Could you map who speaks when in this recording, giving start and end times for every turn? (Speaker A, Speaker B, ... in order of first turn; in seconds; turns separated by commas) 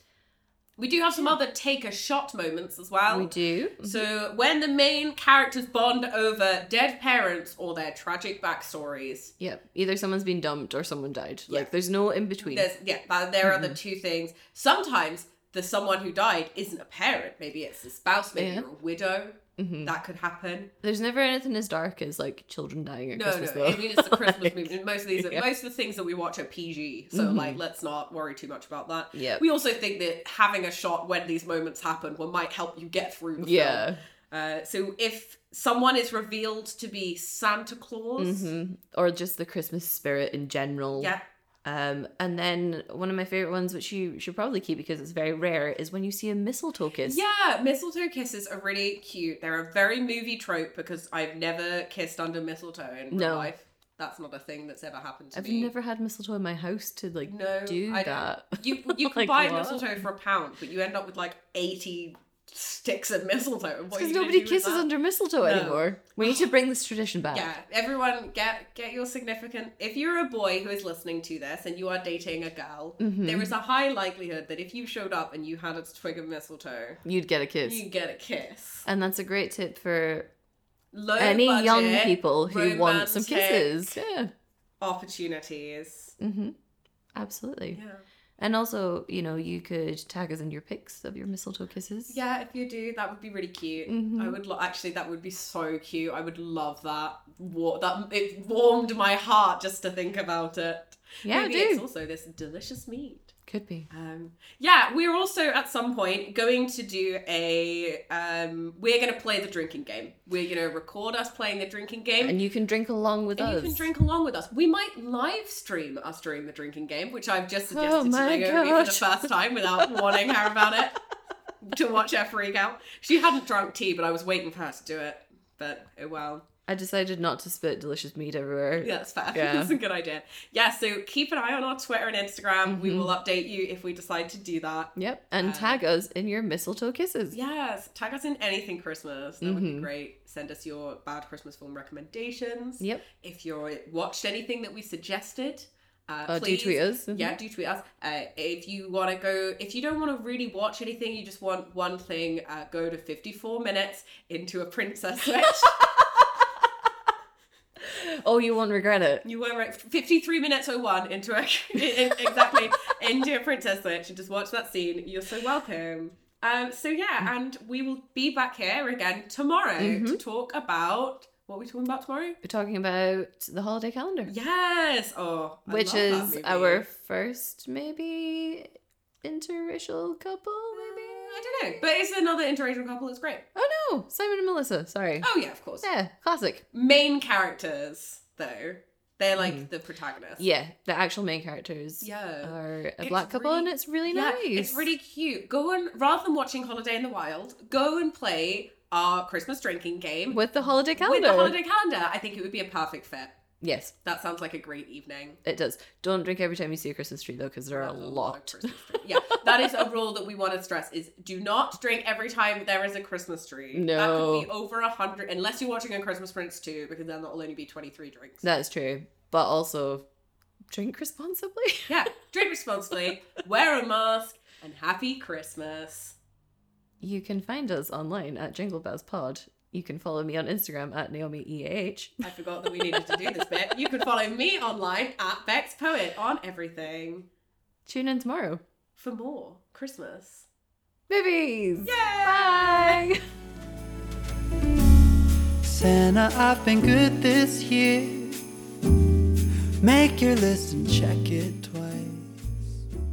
Speaker A: 0.8-9.3, Speaker B: 3.1-4.1, Speaker B: 9.4-12.7, Speaker A: 12.4-20.7, Speaker B: 13.4-13.8, Speaker B: 18.4-18.7, Speaker B: 19.6-19.9, Speaker B: 20.8-25.4, Speaker A: 23.1-38.5, Speaker B: 27.1-27.6, Speaker B: 29.1-29.4, Speaker B: 33.4-34.0, Speaker B: 38.2-47.2, Speaker A: 41.0-41.2, Speaker A: 47.0-55.7, Speaker B: 53.1-53.5, Speaker B: 55.3-60.0, Speaker A: 57.3-64.9, Speaker B: 63.9-67.5, Speaker A: 65.4-66.5, Speaker A: 67.3-77.0, Speaker B: 73.0-73.5, Speaker B: 77.0-77.8, Speaker A: 77.6-78.9, Speaker B: 78.9-80.3, Speaker A: 80.9-84.0, Speaker B: 81.2-84.3, Speaker A: 84.8-86.2, Speaker B: 86.2-86.5, Speaker B: 87.1-87.8, Speaker A: 87.7-88.0, Speaker B: 88.4-92.2, Speaker A: 92.1-103.4, Speaker B: 93.9-94.4, Speaker B: 101.2-101.8, Speaker B: 103.5-103.9, Speaker A: 103.9-112.4, Speaker B: 112.2-113.9, Speaker A: 113.4-121.0, Speaker B: 117.7-120.3, Speaker A: 121.6-126.4, Speaker B: 126.7-129.8, Speaker A: 128.8-135.8, Speaker B: 132.7-133.1, Speaker B: 135.0-137.4, Speaker A: 137.3-155.8, Speaker B: 139.4-139.9, Speaker B: 142.8-143.1, Speaker B: 146.3-147.4, Speaker B: 155.7-156.5, Speaker B: 157.8-159.2, Speaker A: 159.2-172.4, Speaker B: 161.8-162.8, Speaker B: 169.8-170.2, Speaker B: 172.4-174.3, Speaker A: 174.3-176.9, Speaker B: 175.7-181.8, Speaker A: 180.7-183.4, Speaker B: 183.6-185.3, Speaker A: 185.2-185.9, Speaker B: 185.8-186.6, Speaker A: 186.7-190.4, Speaker B: 189.4-189.7, Speaker B: 190.4-194.9, Speaker A: 192.0-203.4, Speaker B: 200.3-201.6, Speaker B: 203.6-203.9, Speaker A: 204.0-205.4, Speaker B: 205.4-209.8, Speaker A: 207.7-218.5, Speaker B: 213.7-214.5, Speaker B: 218.4-220.1, Speaker B: 220.7-222.0, Speaker A: 221.9-226.2, Speaker B: 227.0-232.2, Speaker A: 232.2-237.3, Speaker B: 232.8-233.5, Speaker B: 237.9-238.6, Speaker A: 239.0-240.5, Speaker B: 241.1-243.2, Speaker A: 241.8-243.1, Speaker C: 245.6-252.8